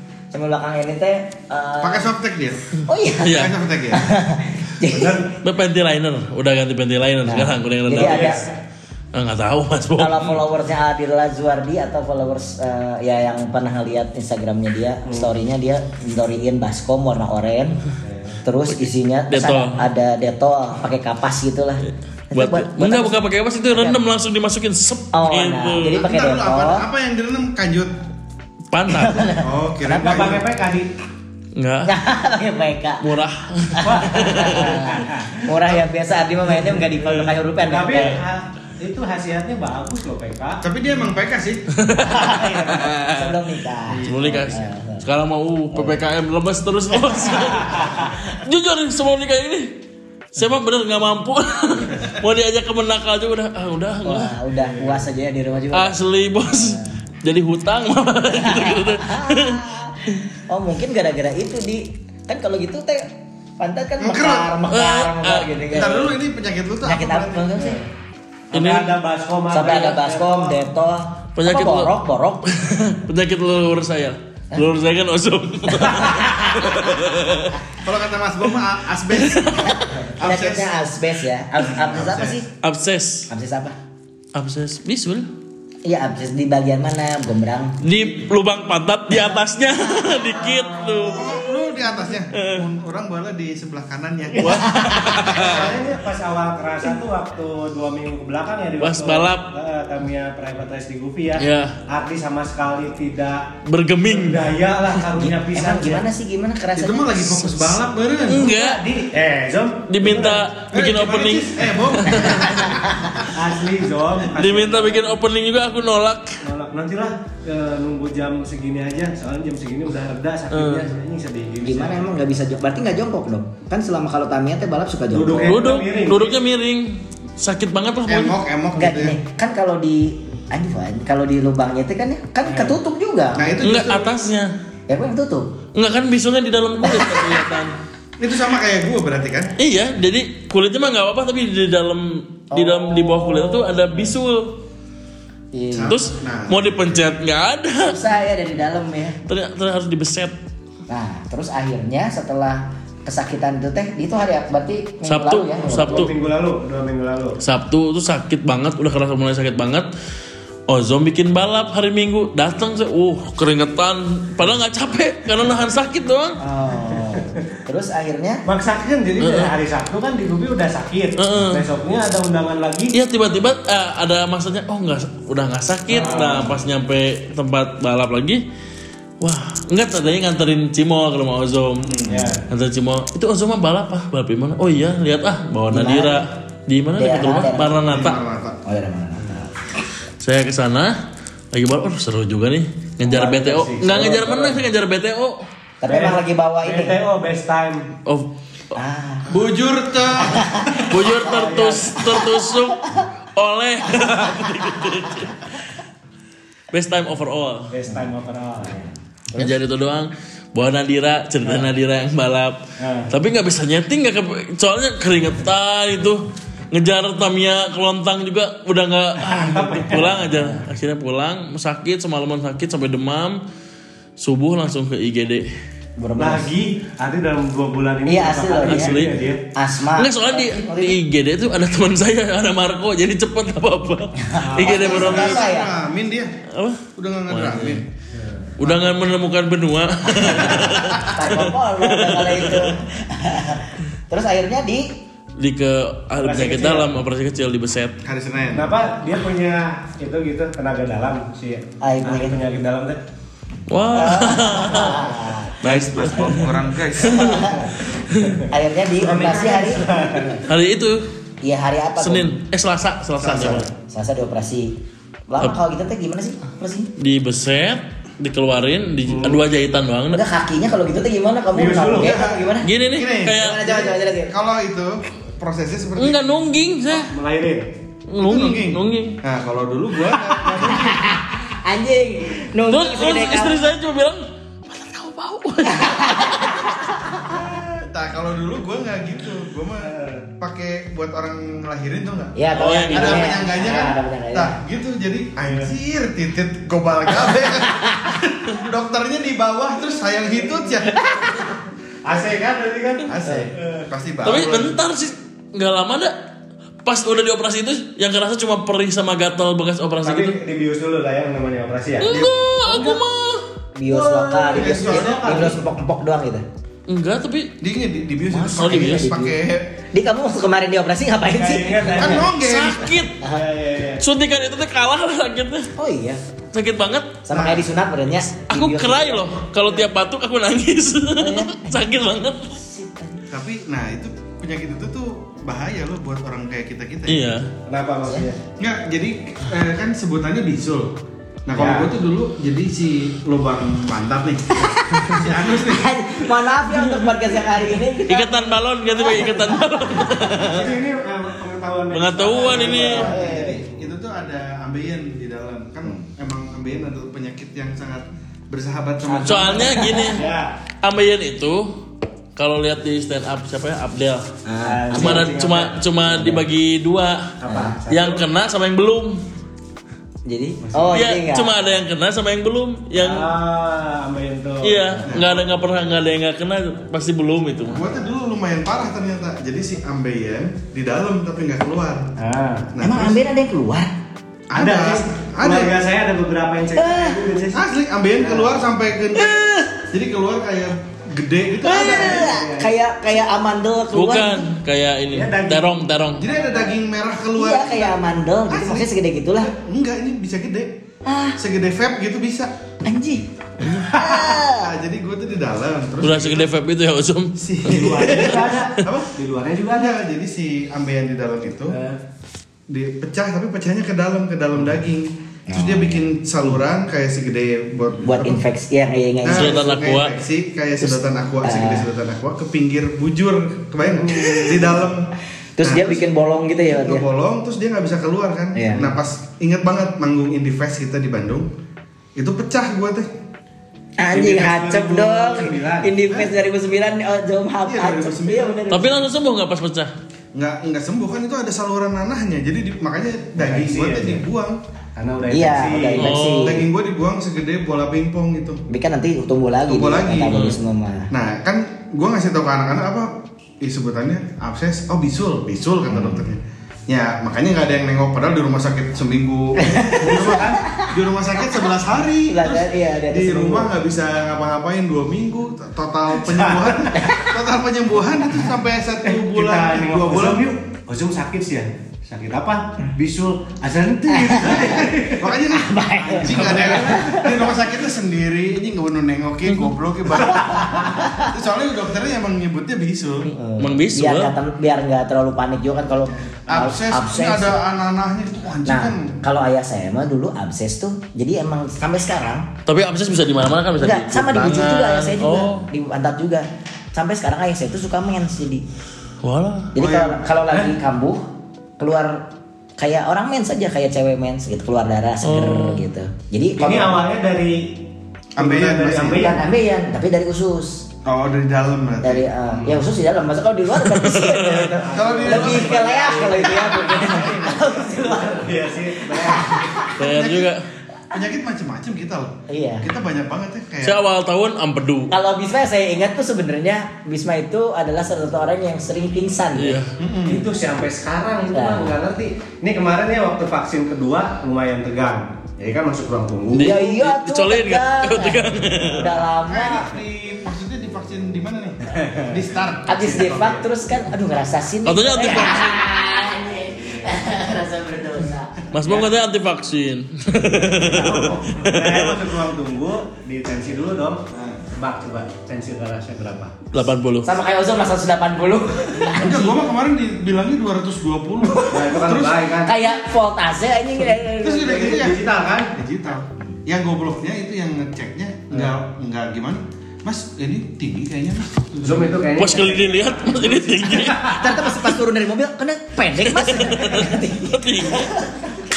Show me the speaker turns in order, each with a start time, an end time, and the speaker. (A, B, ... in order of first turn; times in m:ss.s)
0:00.3-0:02.1 A
0:01.8-0:02.6 B
0:02.9-0:05.3 A
0:03.2-0:03.5 C
0:03.3-0:04.0 B
0:04.9-0:05.3 D
0:05.4-0:08.4 C
0:07.2-0:08.4 A
0:07.9-0:08.6 D
0:09.1-0:10.4 C
0:10.0-0:17.8 A
0:15.1-0:15.3 D
0:18.0-0:18.4 D
0:18.4-0:23.2 A
0:19.3-0:19.8 C
0:21.9-0:26.1 C
0:23.7-0:24.0 A
0:25.1-0:26.8 A
0:25.9-0:27.9 B
0:28.7-0:29.3 C
0:28.9-0:30.4 A
0:29.4-0:30.5 B
0:30.0-0:30.9 D
0:31.6-0:31.9 C
0:31.9-0:33.1 A
0:33.0-0:34.8 C
0:33.8-0:38.2 A
0:33.8-0:35.4 D
0:37.6-0:40.6 D
0:40.6-0:41.6 B
0:41.8-0:43.4 C
0:42.1-0:45.0 A
0:42.2-0:42.9 D
0:43.9-0:44.6 B
0:44.0-0:49.7 C
0:45.7-0:46.0 A
0:47.2-0:48.1 A
0:50.3-0:54.4 C
0:54.0-0:57.0 A
0:54.6-0:55.0 D
0:55.7-0:59.7 C
0:58.3-1:06.2 A
1:04.0-1:04.5 B
1:04.7-1:05.9 C
1:05.7-1:07.6 B
1:06.8-1:07.8 A
1:07.6-1:07.8 D
1:08.5-1:10.6 D
1:08.5-1:08.9 C
1:09.5-1:12.5 A
1:11.4-1:17.6 C
1:15.8-1:17.0 A
1:17.8-1:20.7 B
1:19.1-1:20.0 C
1:20.2-1:22.5 A
1:21.7-1:22.4 B
1:22.6-1:23.3 C
1:23.3-1:23.8 A
1:24.3-1:25.3 C
1:25.8-1:27.9 A
1:27.8-1:31.6 C
1:31.1-1:34.7 B
1:32.3-1:32.6 C
1:34.4-1:35.7 C
1:34.6-1:35.3 A
1:35.2-1:43.5 D
1:38.8-1:39.5 C
1:41.4-1:41.8 C
1:43.7-1:44.4 C
1:44.0-1:46.0 D
1:45.2-1:47.5 A
1:46.8-1:48.5 B
1:48.3-1:48.8 C
1:48.3-1:50.4 D
1:49.9-1:52.7 C
1:50.7-1:53.3 B
1:52.3-1:53.2 A
1:53.3-1:55.2 D
1:54.3-1:56.4 C
1:56.4-2:02.1 D
2:00.5-2:00.9 C
2:01.6-2:05.6 A
2:05.1-2:06.4 D
2:05.4-2:08.4 C
2:08.1-2:09.2 B
2:08.8-2:13.6 A
2:12.5-2:12.8 D
2:13.4-2:14.3 B
2:13.6-2:14.5 C
2:14.9-2:15.5 A
2:15.8-2:17.8 C
2:16.8-2:17.4 A
2:18.2-2:19.5 B
2:19.6-2:24.6 C
2:22.5-2:24.1 A
2:25.5-2:26.0 A
2:25.7-2:26.6 B
2:25.9-2:28.0 C
2:27.8-2:29.2 A
2:29.3-2:30.4 C
2:30.9-2:36.1 A
2:35.1-2:36.1 C
2:35.7-2:37.4 D
2:37.4-2:39.9 C
2:40.7-2:46.4 C
2:46.4-2:48.4 A
2:47.0-2:47.4 D
2:48.5-2:53.0 D
2:49.2-2:49.5 C
2:51.2-2:51.6 C
2:52.9-2:58.4 C
2:55.9-2:56.6 D
2:59.2-3:02.0 C
3:01.8-3:02.3 B
3:02.1-3:02.4 D
3:02.5-3:08.2 C
3:05.7-3:06.2 A
3:07.0-3:08.0 A
3:07.8-3:08.6 B
3:08.6-3:09.6 A
3:10.2-3:11.0 C
3:11.5-3:15.5 C
3:13.0-3:14.6 D
3:15.8-3:17.0 A
3:15.9-3:17.9 D
3:18.1-3:18.3 C
3:18.8-3:19.4 A
3:19.3-3:20.9 B
3:20.2-3:21.0 A
3:20.9-3:25.5 C
3:21.2-3:22.0 D
3:22.1-3:22.4 A
3:24.0-3:25.1 A
3:26.7-3:27.7 C
3:27.7-3:28.9 D
3:29.3-3:32.6 C
3:32.8-3:33.1 D
3:33.1-3:43.4 C
3:39.2-3:40.3 D
3:44.2-3:45.5 C
3:46.0-3:46.5 A
3:46.2-3:49.4 D
3:48.1-3:51.0 A
3:48.7-3:49.2 C
3:49.9-3:55.4 C
3:54.2-3:55.7 A
3:54.4-3:55.2 D
3:54.7-3:56.4 B
3:56.5-3:57.8 C
3:57.0-3:57.8 B
3:58.1-3:58.9 D
3:58.6-4:02.7 C
4:00.1-4:05.0 A
4:00.6-4:01.0 B
4:05.4-4:08.0 C
4:06.2-4:07.0 D
4:08.0-4:08.8 B
4:08.5-4:13.0 D
4:11.8-4:12.4 A
4:13.7-4:17.4 C
4:13.9-4:15.6 A
4:15.6-4:17.7 B
4:17.0-4:17.8 A
4:18.1-4:18.4 C
4:18.5-4:20.3 A
4:19.0-4:20.4 D
4:20.4-4:21.1 C
4:21.4-4:22.3 A
4:22.0-4:23.7 C
4:23.2-4:23.7 B
4:23.8-4:24.8 A
4:25.3-4:26.9 A
4:27.0-4:30.2 C
4:29.1-4:29.4 D
4:30.1-4:32.7 A
4:31.5-4:32.2 D
4:32.0-4:36.2 B
4:32.6-4:33.7 C
4:33.3-4:34.4 A
4:36.0-4:37.1 C
4:37.0-4:37.7 D
4:38.1-4:39.2 C
4:38.2-4:41.1 B
4:40.5-4:43.7 A
4:42.7-4:46.7 C
4:45.6-4:47.4 A
4:47.7-5:01.0 B
4:49.8-4:50.3 D
4:52.4-4:54.6 A
4:52.5-4:53.4 C
4:55.5-4:55.7 D
4:57.8-4:58.2 A
5:00.4-5:00.8 D
5:01.0-5:01.5 A
5:02.0-5:03.9 D
5:03.1-5:04.8 B
5:04.2-5:06.2 C
5:06.8-5:10.4 C
5:10.0-5:12.1 D
5:12.0-5:13.4 C
5:12.0-5:12.3 B
5:12.7-5:13.0 D
5:13.8-5:16.4 A
5:13.9-5:15.6 D
5:14.5-5:15.5 B
5:16.9-5:17.6 C
5:17.6-5:19.8 B
5:18.3-5:19.4 A
5:18.6-5:19.1 C
5:19.9-5:22.3 A
5:21.4-5:22.3 D
5:21.9-5:23.1 B
5:22.3-5:23.2 C
5:23.2-5:24.0 D
5:24.0-5:25.7 C
5:25.8-5:26.2 A
5:26.5-5:27.2 C
5:27.3-5:29.4 A
5:27.3-5:27.6 B
5:28.4-5:32.6 C
5:31.2-5:32.0 A
5:32.6-5:33.3 A
5:33.3-5:37.4 B
5:37.1-5:37.5 C
5:37.7-5:38.4 D
5:38.6-5:45.9 B
5:41.5-5:41.9 D
5:44.6-5:50.5 A
5:48.1-5:50.7 C
5:50.4-5:53.1 D
5:51.9-5:53.0 C
5:52.4-5:59.9 B
5:53.0-5:53.6 A
5:59.1-6:00.2 A
5:59.2-6:00.3 C
6:00.1-6:00.5 D
6:00.8-6:01.7 C
6:02.4-6:04.3 C
6:04.5-6:05.3 A
6:04.6-6:06.4 D
6:04.9-6:07.4 C
6:07.4-6:08.2 D
6:07.5-6:07.8 A
6:07.9-6:09.2 C
6:10.3-6:11.5 A
6:10.6-6:11.0 B
6:10.9-6:13.3 C
6:13.0-6:14.9 D
6:14.6-6:17.9 C
6:15.1-6:15.4 B
6:17.7-6:22.1 B
6:22.2-6:22.7 D
6:22.7-6:23.2 B
6:22.8-6:23.9 A
6:24.5-6:25.8 B
6:24.6-6:27.6 D
6:26.8-6:27.2 A
6:27.5-6:32.3 B
6:28.2-6:28.6 D
6:29.2-6:29.8 A
6:31.6-6:34.5 A
6:31.8-6:32.7 D
6:33.9-6:36.3 C
6:35.1-6:36.8 D
6:36.2-6:40.8 B
6:37.4-6:39.5 A
6:41.0-6:41.4 A
6:41.4-6:42.5 B
6:42.8-6:44.7 A
6:44.0-6:46.5 B
6:46.0-6:48.8 C
6:47.4-6:49.1 B
6:47.6-6:50.0 D
6:49.7-6:51.8 B
6:51.7-6:52.0 D
6:52.7-6:58.4 B
6:55.5-6:55.9 A
6:58.0-6:59.6 A
6:59.2-7:06.1 B
6:59.3-7:00.2 C
7:00.8-7:01.9 A
7:03.9-7:04.8 D
7:05.6-7:07.0 A
7:06.7-7:11.5 B
7:08.6-7:09.0 A
7:12.2-7:13.1 B
7:14.0-7:19.0 A
7:14.1-7:15.9 D
7:17.7-7:18.6 B
7:18.7-7:19.9 C
7:20.4-7:24.6 B
7:23.4-7:24.2 D
7:25.0-7:26.1 D
7:25.3-7:26.7 A
7:26.0-7:26.6 C
7:26.4-7:28.6 B
7:28.7-7:31.1 A
7:29.7-7:30.5 B
7:31.1-7:50.5 B
7:35.9-7:36.2 A
7:39.6-7:40.9 A
7:40.0-7:40.6 D
7:42.3-7:43.7 A
7:46.1-7:47.1 D
7:47.0-7:47.4 A
7:49.0-7:55.4 D
7:54.1-7:54.9 A
7:54.4-8:03.3 B
7:55.5-7:57.4 A
7:56.1-7:57.2 D
8:00.2-8:00.9 D
8:00.3-8:01.4 A
8:03.4-8:07.6 A
8:03.6-8:04.3 C
8:06.5-8:09.2 B
8:08.7-8:12.5 A
8:12.7-8:15.7 C
8:13.8-8:18.6 A
8:19.2-8:19.7 C
8:19.8-8:21.3 A
8:19.8-8:20.2 B
8:21.8-8:22.3 A
8:22.8-8:27.0 A
8:25.2-8:25.8 C
8:26.6-8:27.8 D
8:28.4-8:29.4 B
8:28.4-8:29.4 D
8:29.1-8:30.9 A
8:31.0-8:32.3 B
8:32.0-8:40.0 A
8:32.5-8:32.8 D
8:33.8-8:34.7 C
8:34.8-8:39.8 D
8:34.9-8:36.4 B
8:40.0-8:40.6 C
8:40.0-8:40.6 B
8:41.1-8:44.0 B
8:42.5-8:42.9 A
8:43.8-8:45.1 C
8:45.1-8:49.8 A
8:49.6-8:49.9 C
8:50.0-8:50.5 B
8:50.2-8:56.8 D
8:51.5-8:52.0 A
8:56.5-8:59.2 C
8:56.5-8:59.9 A
8:58.8-8:59.3 D
8:59.5-9:03.6 B
9:01.9-9:02.4 D
9:02.9-9:08.5 A
9:04.8-9:05.8 C
9:08.7-9:12.3 C
9:08.8-9:09.1 D
9:10.7-9:16.6 D
9:16.7-9:17.3 C
9:17.2-9:19.7 A
9:19.2-9:22.4 B
9:21.5-9:21.8 A
9:21.7-9:22.8 D
9:22.6-9:25.0 A
9:24.4-9:32.3 B
9:24.6-9:25.7 D
9:28.5-9:28.8 D
9:31.8-9:34.7 D
9:32.3-9:34.4 C
9:34.3-9:38.5 A
9:36.2-9:38.2 C